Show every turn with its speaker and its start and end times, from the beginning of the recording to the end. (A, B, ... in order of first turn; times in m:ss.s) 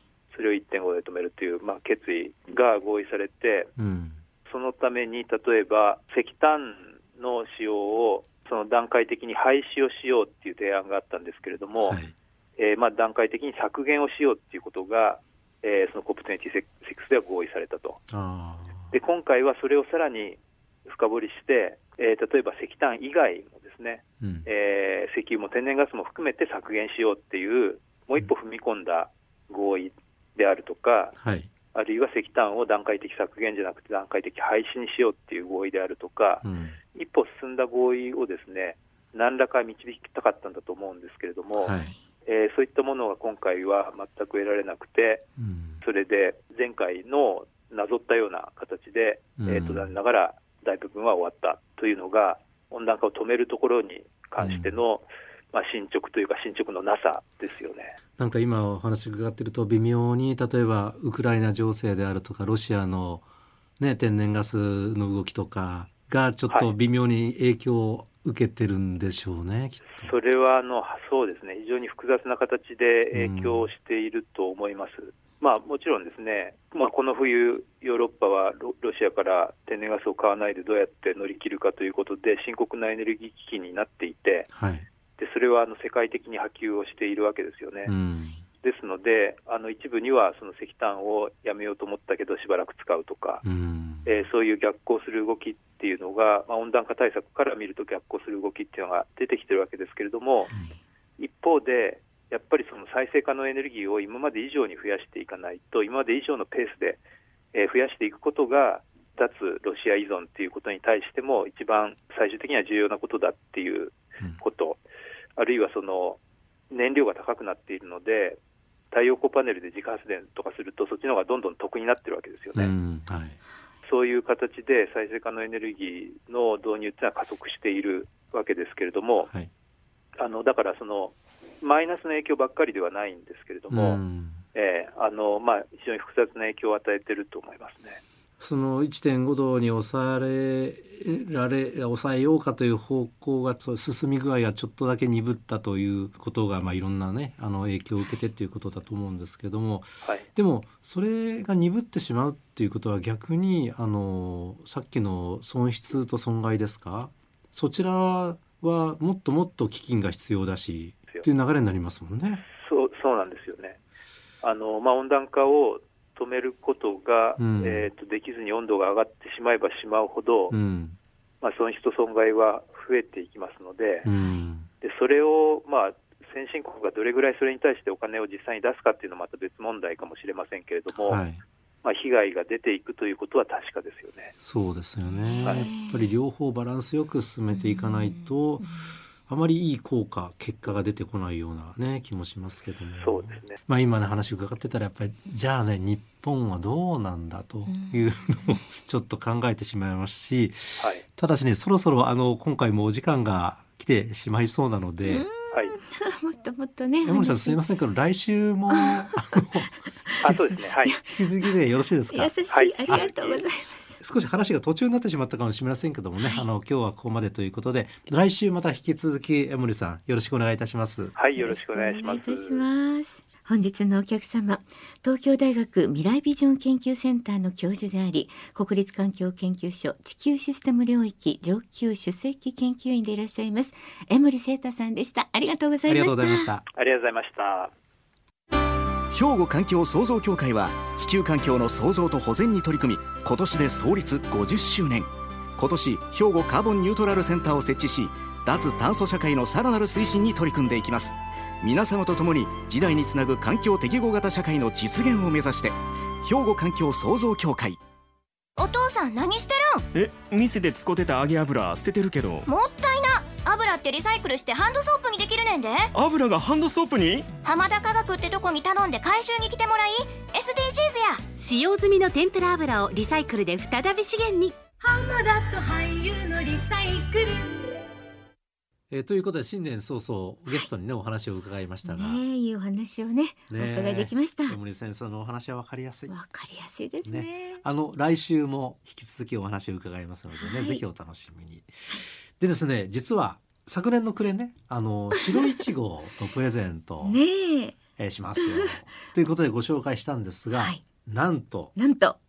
0:00.3-0:03.7 A
0:03.8-0:04.2 B
0:04.5-0:12.0 A
0:11.8-0:12.1 B
0:12.6-0:18.0 A
0:18.1-0:18.9 B
0:18.9-0:31.2 A
0:24.2-0:24.5 B
0:31.2-0:31.5 B
0:31.7-0:41.7 A
0:36.4-0:36.8 B
0:41.6-0:41.9 B
0:42.3-0:45.2 A
0:45.4-0:45.8 B
0:45.8-0:58.0 A
0:49.4-0:49.9 B
0:54.4-0:54.8 B
0:58.2-1:03.2 B
1:03.8-1:10.2 B
1:09.9-1:24.5 A
1:13.1-1:13.7 B
1:24.5-1:24.9 B
1:25.2-1:27.9 A
1:27.9-1:28.4 B
1:28.6-1:33.4 A
1:33.4-1:34.2 B
1:34.0-1:40.5 A
1:41.2-1:47.0 A
1:47.5-1:54.8 A
1:55.4-1:56.2 A
1:56.7-1:58.4 A
1:58.9-2:02.7 A
2:02.6-2:03.4 B
2:03.8-2:09.3 A
2:10.2-2:14.0 A
2:13.7-2:14.4 B
2:14.5-2:18.0 A
2:18.4-2:42.4 B
2:42.5-2:43.8 A
2:44.4-2:50.6 A
2:47.4-2:47.9 B
2:50.5-2:51.0 B
2:51.4-2:54.1 A
2:54.0-2:54.7 B
2:54.8-3:01.2 A
3:01.0-3:01.4 B
3:01.8-3:04.3 A
3:04.4-3:08.8 B
3:05.0-3:06.1 C
3:05.4-3:05.7 A
3:07.5-3:09.0 C
3:09.3-3:20.6 B
3:13.0-3:13.6 A
3:17.7-3:18.6 C
3:20.8-3:21.0 A
3:21.2-3:25.3 B
3:25.0-3:27.6 C
3:27.0-3:29.7 B
3:28.7-3:29.2 C
3:30.1-3:31.3 C
3:30.2-3:31.0 A
3:31.0-3:32.3 B
3:32.1-3:34.0 C
3:32.5-3:33.4 A
3:34.0-3:41.1 B
3:36.2-3:36.5 C
3:41.2-3:42.7 A
3:41.4-3:56.5 C
3:55.9-3:56.6 B
3:56.7-3:57.7 A
3:59.1-4:17.8 D
4:18.6-4:19.8 E
4:19.9-4:22.5 F
4:22.5-4:25.9 E
4:25.9-4:27.3 F
4:27.4-4:31.2 E
4:31.4-4:34.6 G
4:34.8-4:37.8 H
4:38.9-4:42.2 B
4:41.8-4:44.6 C
4:43.5-4:46.1 B
4:46.1-4:47.6 C
4:47.0-4:51.7 B
4:50.4-4:50.8 C
4:52.4-4:57.2 B
4:57.0-4:57.8 C
4:58.0-5:01.8 B
4:58.4-4:58.8 C
5:00.5-5:00.8 C
5:01.8-5:02.2 C